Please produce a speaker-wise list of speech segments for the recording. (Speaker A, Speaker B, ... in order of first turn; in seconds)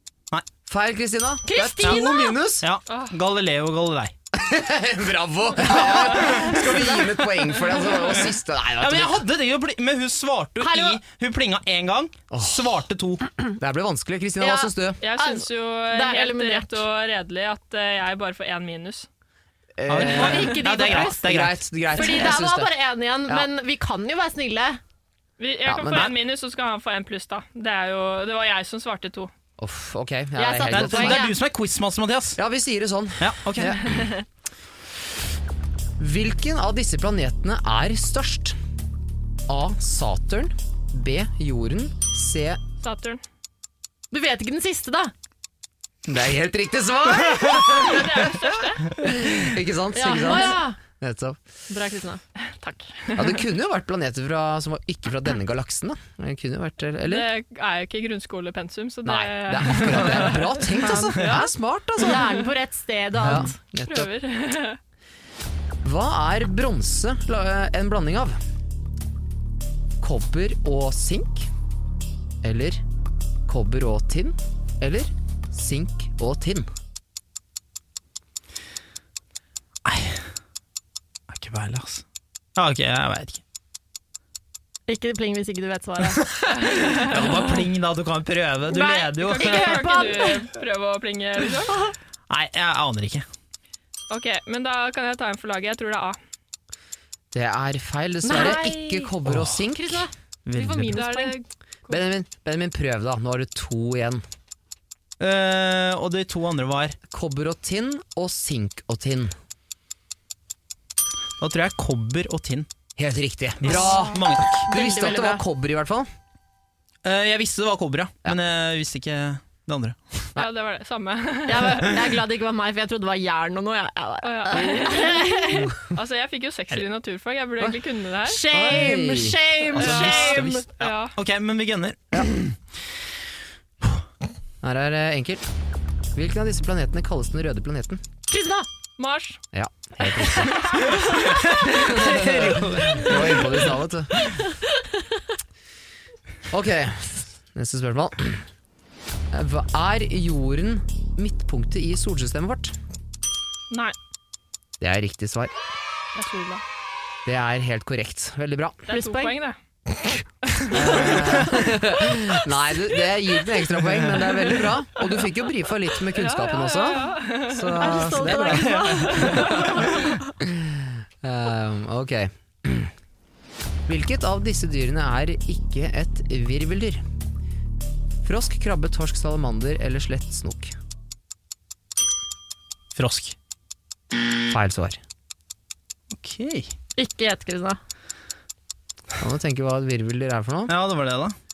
Speaker A: 0.7-2.6, 4.3-9.2, 12.3-12.6, 13.5-15.0, 19.7-22.7, 25.6-26.1, 29.6-31.3, 32.4-34.1, 36.0-38.6, 39.5-42.6, 46.1-48.3, 48.9-51.4, 53.1-57.3, 59.0-62.3, 63.2-64.1, 65.8-68.4, 70.0-71.5, 72.4-72.8, 73.5-76.7, 97.3-100.9, 101.9-104.2, 107.1-109.3, 113.0-116.1, 128.5-129.8, 134.6-135.4, 136.1-138.0, 139.5-140.8, 141.8-144.3, 146.5-148.4, 149.3-152.7, 154.8-155.5, 157.2-158.8, 160.7-172.9, 173.9-177.0, 178.2-180.7, 184.4-185.0, 189.2-190.7
Speaker B: 1.4-2.4, 10.6-11.0, 14.4-16.8, 20.0-21.3, 21.9-24.8, 30.4-31.4, 44.1-45.1, 49.9-50.8, 51.7-52.2, 62.0-63.5, 84.9-86.2, 88.7-90.4, 98.2-101.4, 114.5-115.4, 121.5-125.8, 128.2-130.7, 138.3-138.7, 140.1-141.0, 158.9-159.4, 160.9-161.5, 167.7-170.3, 186.9-187.8
Speaker C: 2.6-4.1, 5.7-6.6, 8.8-13.2, 19.9-21.6, 25.9-26.2, 30.7-32.4, 33.2-33.8, 79.8-80.2, 81.3-82.0, 82.5-83.4, 86.3-90.0, 92.3-93.2, 99.2-99.6, 100.5-101.0, 105.2-107.0, 111.4-112.7, 113.6-114.7, 117.0-120.2, 129.7-132.6, 141.2-143.4, 168.3-169.4, 182.9-183.3, 186.1-186.7, 190.7-191.3
Speaker D: 2.9-3.1, 15.0-19.1, 25.4-29.3, 42.8-43.2, 47.5-49.0, 52.6-53.4, 57.0-61.5, 63.7-64.8, 88.8-91.9, 94.1-96.2, 100.9-102.0, 120.3-122.0, 124.2-128.4, 129.8-131.1, 139.0-139.4, 153.7-153.9, 156.1-156.6, 158.9-159.6, 160.5-161.2, 166.1-168.1, 169.0-169.7